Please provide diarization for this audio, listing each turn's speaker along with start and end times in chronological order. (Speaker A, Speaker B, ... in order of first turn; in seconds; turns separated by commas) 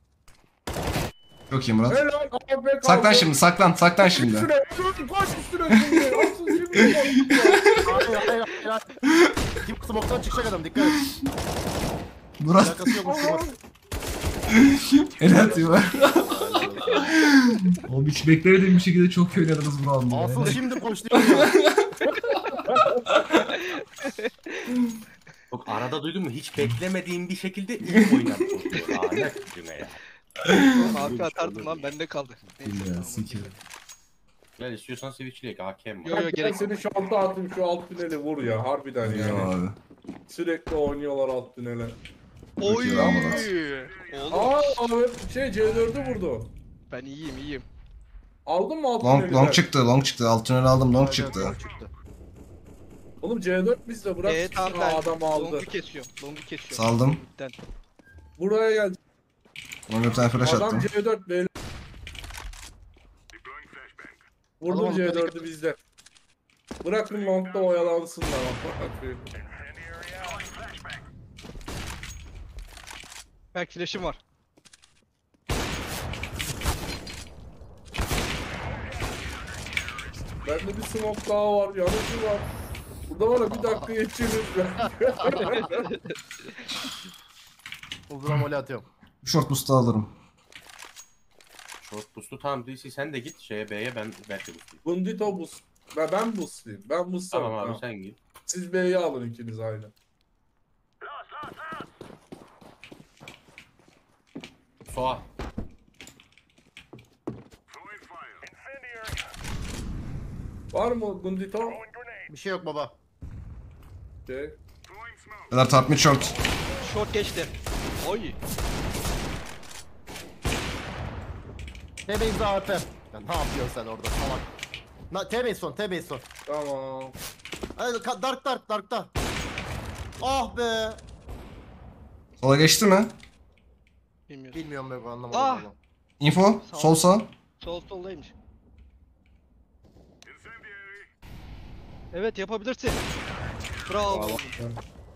Speaker A: 1.5-2.0, Speaker B: 1.9-3.3, Speaker A: 2.8-4.5, Speaker B: 4.1-7.8, Speaker A: 5.8-8.0, Speaker C: 7.8-8.9, Speaker A: 9.1-9.4, Speaker C: 9.6-11.0, Speaker A: 12.4-13.0, Speaker C: 12.6-13.5, Speaker B: 13.1-13.6, Speaker A: 14.5-20.6, Speaker C: 15.3-17.1, Speaker C: 20.1-21.6, Speaker A: 21.1-21.9, Speaker B: 22.7-23.0, Speaker A: 23.1-23.6, Speaker D: 23.5-24.7, Speaker E: 25.5-30.0, Speaker A: 30.4-30.7, Speaker D: 30.6-33.5, Speaker E: 30.7-31.9, Speaker A: 32.5-33.5, Speaker E: 34.6-36.4, Speaker D: 36.0-36.8, Speaker B: 36.1-39.5, Speaker A: 39.0-39.8, Speaker B: 40.3-42.0, Speaker D: 42.6-44.8, Speaker A: 42.6-43.5, Speaker B: 43.0-43.5, Speaker B: 44.3-46.5, Speaker D: 46.9-47.6, Speaker B: 48.5-49.6, Speaker A: 49.0-51.6, Speaker C: 50.9-51.9, Speaker B: 53.2-55.7, Speaker D: 54.2-57.5, Speaker A: 56.7-57.2, Speaker B: 58.4-59.0, Speaker A: 59.9-60.9, Speaker B: 60.4-61.5, Speaker B: 64.6-65.8, Speaker C: 64.7-65.5, Speaker B: 66.8-69.3, Speaker D: 73.5-74.2, Speaker B: 80.4-82.5, Speaker B: 83.1-85.9, Speaker C: 83.5-83.9, Speaker C: 85.2-85.6, Speaker D: 85.4-86.7, Speaker C: 88.1-88.9, Speaker A: 89.2-90.1, Speaker E: 91.8-94.8, Speaker B: 94.8-97.8, Speaker E: 97.3-98.2, Speaker B: 98.5-99.9, Speaker E: 104.9-105.3, Speaker B: 110.7-111.8, Speaker C: 112.3-112.9, Speaker B: 114.3-114.6, Speaker A: 115.5-116.3, Speaker D: 116.8-118.4, Speaker C: 122.0-124.5, Speaker C: 125.1-126.2, Speaker B: 126.5-127.1, Speaker C: 127.8-129.1, Speaker C: 130.2-131.0, Speaker A: 132.4-133.1, Speaker D: 134.3-134.7, Speaker C: 134.5-135.8, Speaker D: 135.3-135.7, Speaker A: 136.2-137.3, Speaker D: 136.6-138.3, Speaker D: 142.1-143.0, Speaker D: 143.9-144.6, Speaker B: 144.1-144.8